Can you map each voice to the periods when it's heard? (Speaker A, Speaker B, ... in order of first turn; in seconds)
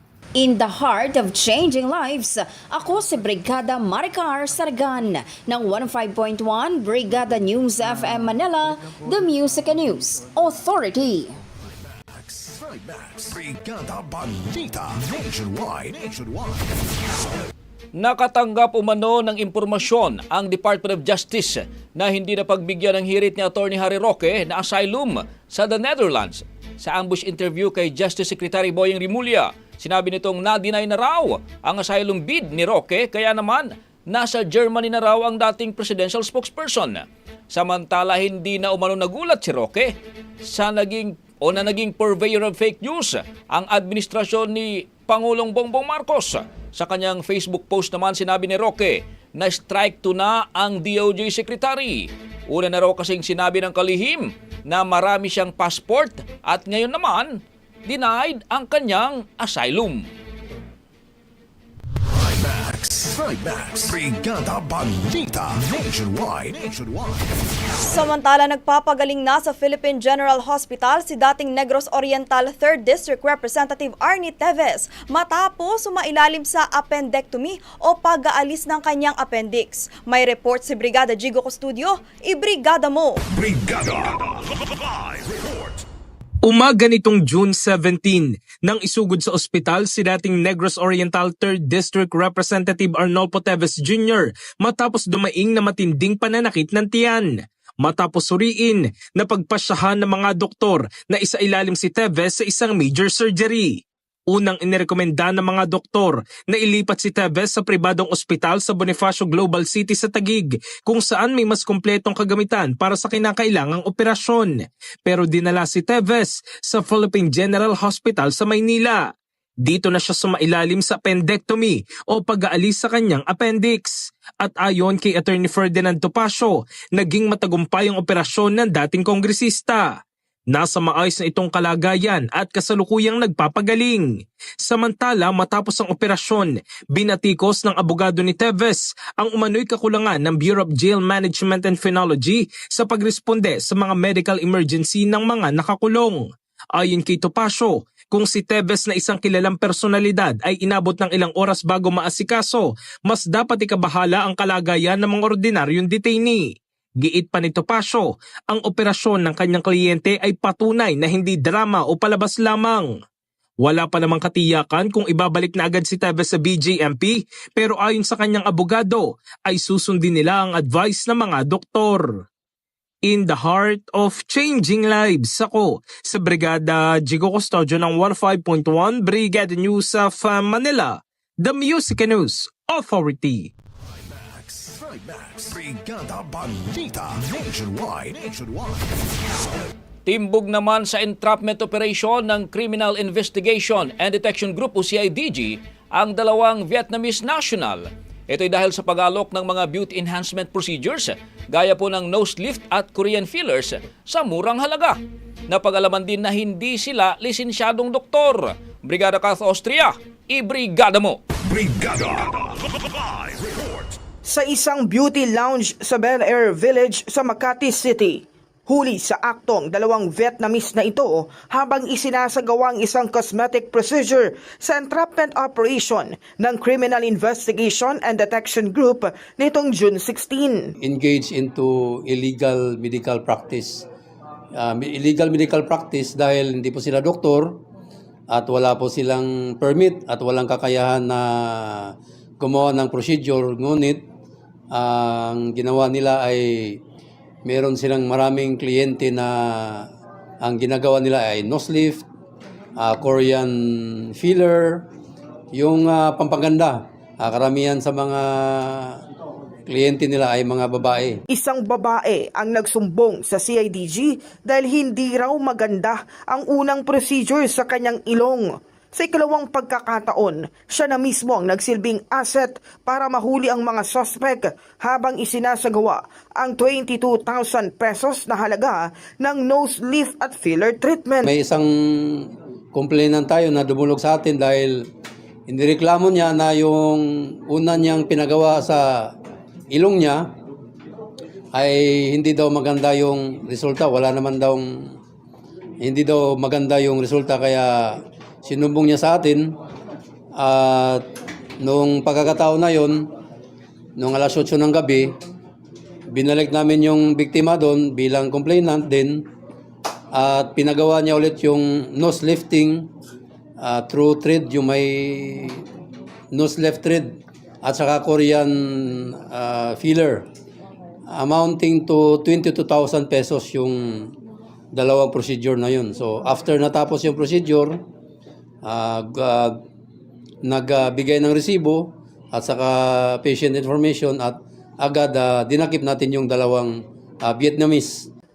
Speaker A: 0.4-11.3
Speaker B: 11.9-16.9, 62.1-67.3, 83.3-84.4, 85.0-85.8, 183.9-189.1, 211.4-212.5, 213.1-213.9
Speaker C: 17.9-60.0, 190.1-211.2
Speaker D: 67.8-83.2
Speaker E: 86.4-103.8, 104.3-119.0, 119.6-129.9, 130.5-134.1, 134.6-146.2, 146.8-156.5, 157.0-162.9, 163.6-172.1, 173.1-183.5
Speaker F: 214.3-230.7, 261.3-281.2
Speaker G: 230.8-233.8, 234.6-237.6, 238.3-244.0, 244.7-246.8, 247.4-249.9, 250.4-252.0, 252.8-254.8, 255.5-259.0, 259.7-261.2, 281.2-284.9, 285.5-289.1, 289.7-290.2, 291.5-294.9, 295.8-299.5, 300.4-301.0, 301.6-303.1, 304.0-305.1, 306.1-309.2, 310.1-312.9, 313.6-315.6, 316.3-320.2, 321.1-324.1, 324.7-327.8, 328.6-329.6, 330.4-338.1